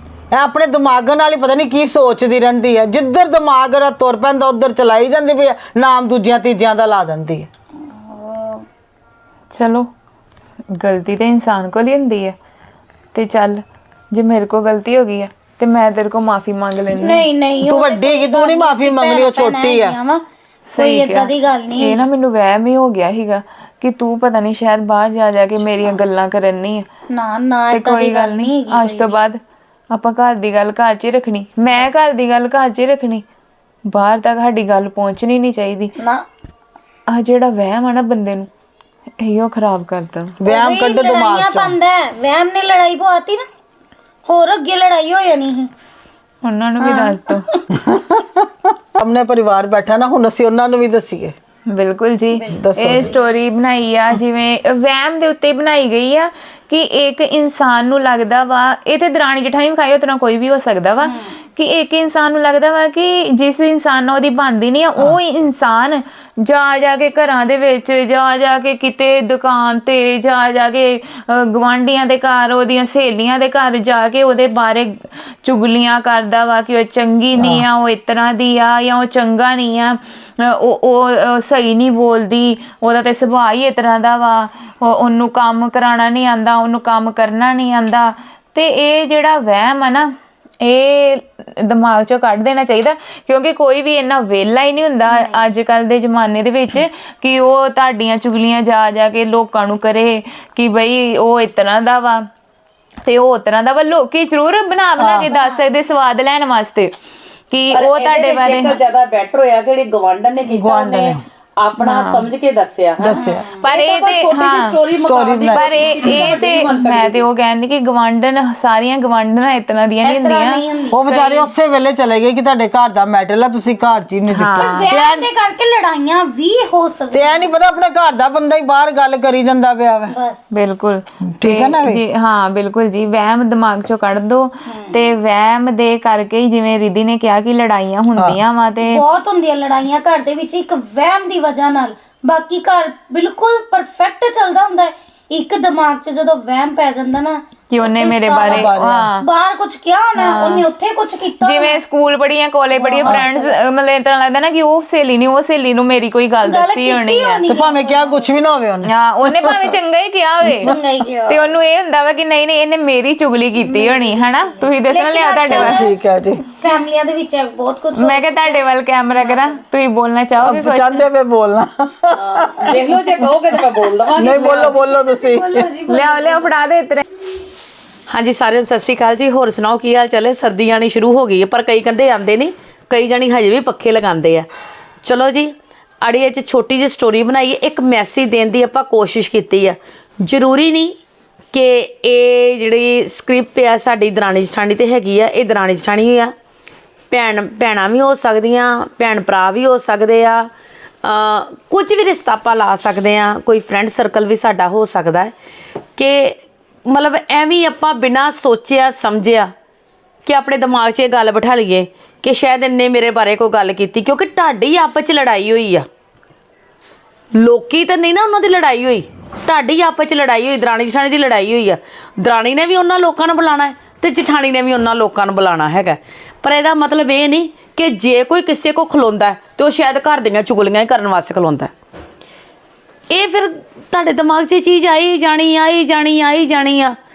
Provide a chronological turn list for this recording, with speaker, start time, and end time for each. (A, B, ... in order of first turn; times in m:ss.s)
0:00.3-0:07.5 A
0:07.8-0:08.6 B
0:09.5-0:09.9 C
0:10.7-0:12.4 C
0:13.1-0:17.2 C
0:17.0-0:20.2 B
0:17.6-0:20.0 A
0:20.7-0:26.9 C
0:20.8-0:22.0 B
0:27.1-0:29.2 B
0:27.7-0:29.4 C
0:29.9-0:33.2 C
0:33.9-0:35.9 C
0:36.0-0:36.2 B
0:37.1-0:38.5 C
0:39.2-0:40.4 C
0:40.4-0:41.8 A
0:40.5-0:43.5 B
0:44.2-0:45.7 B
0:46.4-0:47.5 C
0:46.8-0:47.6 B
0:47.7-0:51.3 A
0:51.7-1:42.2 C
0:52.5-0:53.1 A
1:01.0-1:01.3 B
1:17.4-1:17.6 A
1:35.1-1:35.4 B
1:43.0-1:46.9 C
1:45.0-1:45.3 A
1:45.3-1:45.6 B
1:47.5-1:48.8 C
1:47.7-1:57.2 D
1:50.5-1:51.2 A
1:51.8-1:52.3 C
1:53.0-1:53.5 A
1:53.1-1:53.6 B
1:53.6-1:54.8 C
1:54.9-1:56.0 A
1:55.5-2:01.5 C
2:00.0-2:01.0 B
2:00.9-2:05.3 A
2:04.3-2:04.9 C
2:04.6-2:07.5 B
2:07.1-2:10.1 A
2:10.1-2:10.5 B
2:10.5-2:19.0 C
2:11.2-2:12.0 A
2:14.7-2:15.0 B
2:18.8-2:31.8 B
2:27.7-2:29.3 C
2:28.4-2:29.1 A
2:30.2-2:30.6 C
2:31.4-2:37.6 C
2:32.8-2:33.5 B
2:36.4-2:38.3 B
2:37.5-2:39.7 A
2:38.8-2:40.8 C
2:40.6-2:41.5 B
2:41.3-2:45.9 C
2:43.6-2:44.1 B
2:44.8-2:45.9 B
2:45.5-2:46.4 A
2:46.6-2:48.6 B
2:47.9-2:51.0 C
2:49.2-2:49.5 B
2:50.4-2:53.0 A
2:52.1-2:54.8 D
2:54.1-2:55.7 A
2:54.2-2:56.5 B
2:55.9-2:57.0 C
2:58.1-3:04.5 D
3:05.0-3:11.0 D
3:11.5-3:16.3 D
3:17.1-3:20.5 D
3:21.0-3:25.3 D
3:26.0-3:29.5 D
3:30.2-3:35.8 D
3:37.4-3:51.7 D
3:53.1-3:56.9 D